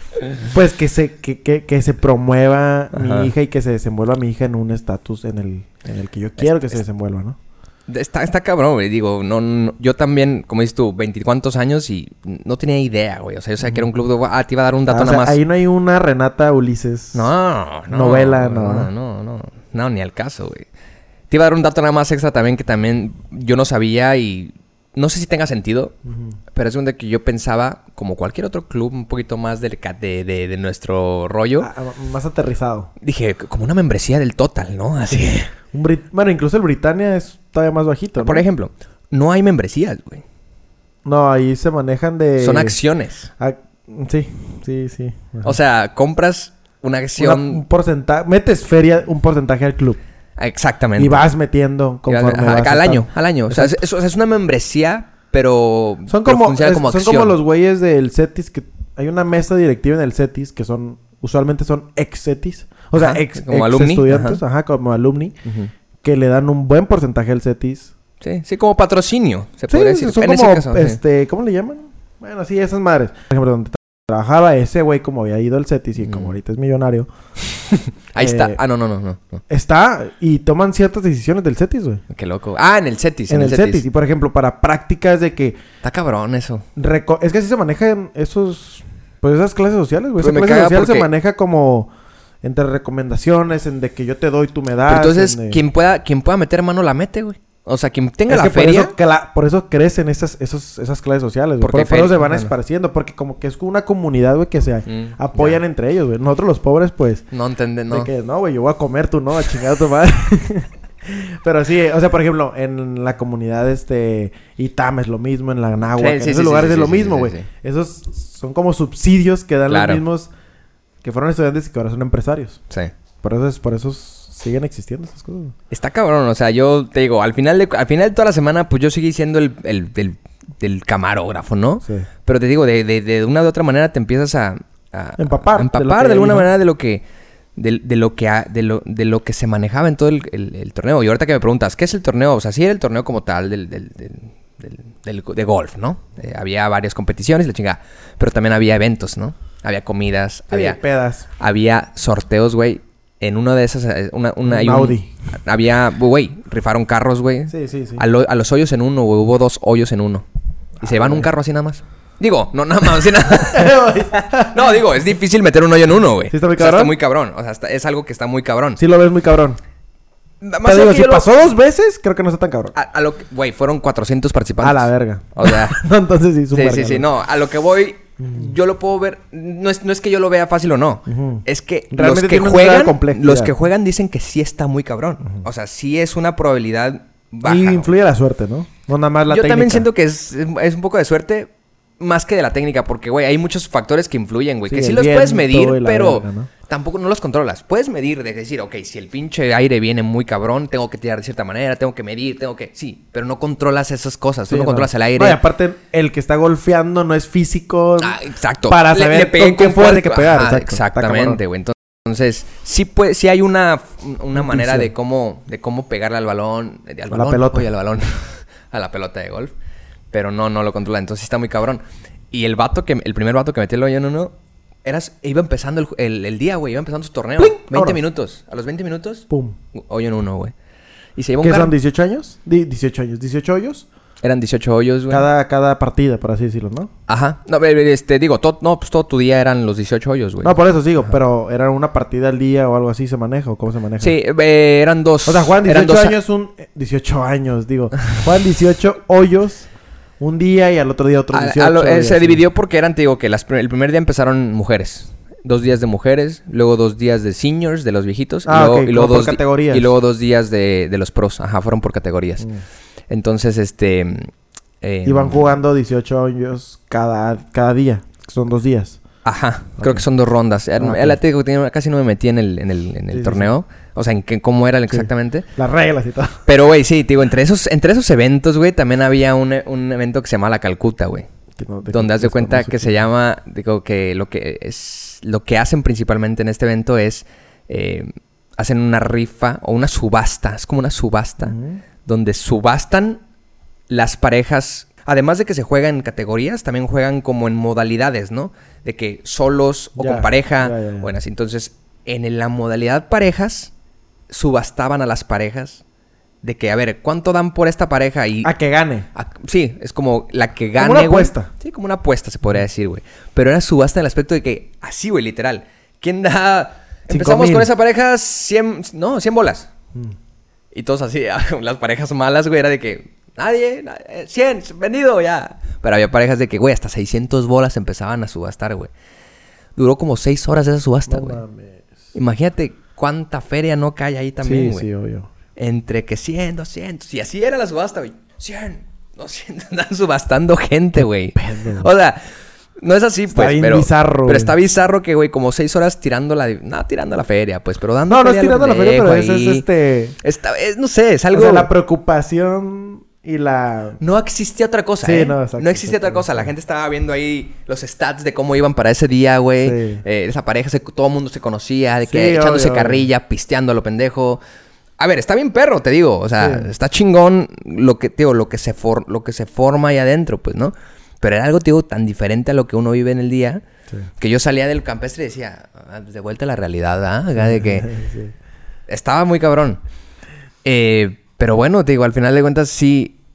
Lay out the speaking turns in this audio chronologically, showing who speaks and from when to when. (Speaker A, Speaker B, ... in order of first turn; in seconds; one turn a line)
Speaker A: 0.4-7.4
Speaker B: 2.9-3.3
Speaker B: 6.4-6.8
Speaker B: 7.9-15.4
Speaker A: 14.9-17.3
Speaker B: 17.1-20.6
Speaker A: 17.9-18.9
Speaker B: 21.3-25.9
Speaker A: 26.1-26.4
Speaker B: 26.5-31.7
Speaker A: 31.6-32.9
Speaker B: 33.0-35.5
Speaker A: 35.7-38.4
Speaker B: 38.2-40.2
Speaker A: 41.0-42.8
Speaker B: 42.4-43.3
Speaker A: 43.4-45.5
Speaker B: 45.4-47.6
Speaker A: 47.2-50.0
Speaker B: 50.4-51.2
Speaker A: 51.0-53.8
Speaker B: 52.1-57.4
Speaker A: 56.1-65.4
Speaker B: 62.9-64.4
Speaker A: 66.0-67.9
Speaker B: 68.2-71.0
Speaker A: 69.7-77.1
Speaker B: 76.0-76.3
Speaker B: 78.1-79.4
Speaker A: 78.2-78.6
Speaker A: 79.5-82.0
Speaker B: 82.1-83.8
Speaker A: 83.3-85.6
Speaker B: 85.8-86.6
Speaker A: 86.8-91.9
Speaker B: 90.2-91.1
Speaker A: 92.4-95.6
Speaker B: 94.9-98.9
Speaker A: 98.3-107.2
Speaker B: 101.6-102.5
Speaker B: 104.9-105.6
Speaker B: 107.3-108.1
Speaker A: 107.9-120.3
Speaker B: 116.0-117.5
Speaker B: 119.7-120.0
Speaker A: 121.0-122.6
Speaker A: 123.2-125.5
Speaker B: 125.7-137.0
Speaker A: 135.2-136.5
Speaker B: 137.6-150.8
Speaker A: 150.5-151.2
Speaker B: 151.4-160.2
Speaker A: 154.4-155.1
Speaker A: 157.5-158.0
Speaker A: 160.8-161.3
Speaker B: 160.8-168.8
Speaker A: 163.3-164.8
Speaker A: 166.3-166.9
Speaker A: 168.8-169.6
Speaker B: 170.4-171.3
Speaker A: 170.6-172.7
Speaker B: 172.7-175.8
Speaker A: 174.6-177.1
Speaker B: 176.5-187.9
Speaker A: 178.2-178.5
Speaker A: 181.1-183.5
Speaker A: 187.4-189.9
Speaker B: 189.3-205.4
Speaker A: 194.7-196.5
Speaker A: 204.5-211.4
Speaker B: 208.0-219.5
Speaker A: 214.4-214.9
Speaker A: 217.1-217.7
Speaker B: 220.1-230.5
Speaker A: 227.4-228.0
Speaker A: 229.3-229.6
Speaker B: 231.2-231.7
Speaker A: 231.4-233.9
Speaker B: 234.2-235.3
Speaker A: 235.1-236.9
Speaker B: 237.1-240.6
Speaker A: 240.4-244.2
Speaker B: 244.0-246.2
Speaker A: 245.2-249.7
Speaker A: 250.2-252.4
Speaker B: 251.3-262.5
Speaker A: 258.4-259.9
Speaker B: 263.1-265.6
Speaker A: 265.1-269.0
Speaker B: 269.2-275.5
Speaker A: 269.8-270.0
Speaker A: 270.8-271.2
Speaker A: 273.1-273.5
Speaker A: 274.9-276.4
Speaker B: 276.4-281.3
Speaker A: 281.6-283.0
Speaker B: 281.9-293.2
Speaker A: 291.4-291.8
Speaker B: 293.9-303.7
Speaker A: 300.0-301.1
Speaker B: 304.3-305.8
Speaker B: 306.4-308.5
Speaker A: 308.4-309.1
Speaker B: 309.1-319.7
Speaker A: 310.8-311.5
Speaker A: 317.1-317.7
Speaker B: 320.7-328.9
Speaker B: 329.8-331.4
Speaker A: 331.1-331.9
Speaker B: 332.1-334.9
Speaker A: 334.4-335.3
Speaker B: 335.6-349.6
Speaker A: 341.4-341.9
Speaker A: 343.3-344.5
Speaker A: 348.1-350.2
Speaker B: 350.2-351.7
Speaker A: 351.3-354.0
Speaker B: 354.0-364.4
Speaker A: 355.0-356.5
Speaker A: 359.6-360.0
Speaker A: 362.1-363.1
Speaker B: 365.0-373.6
Speaker A: 366.4-366.7
Speaker B: 374.2-377.9
Speaker A: 377.4-378.3
Speaker B: 378.9-379.8
Speaker B: 380.6-383.1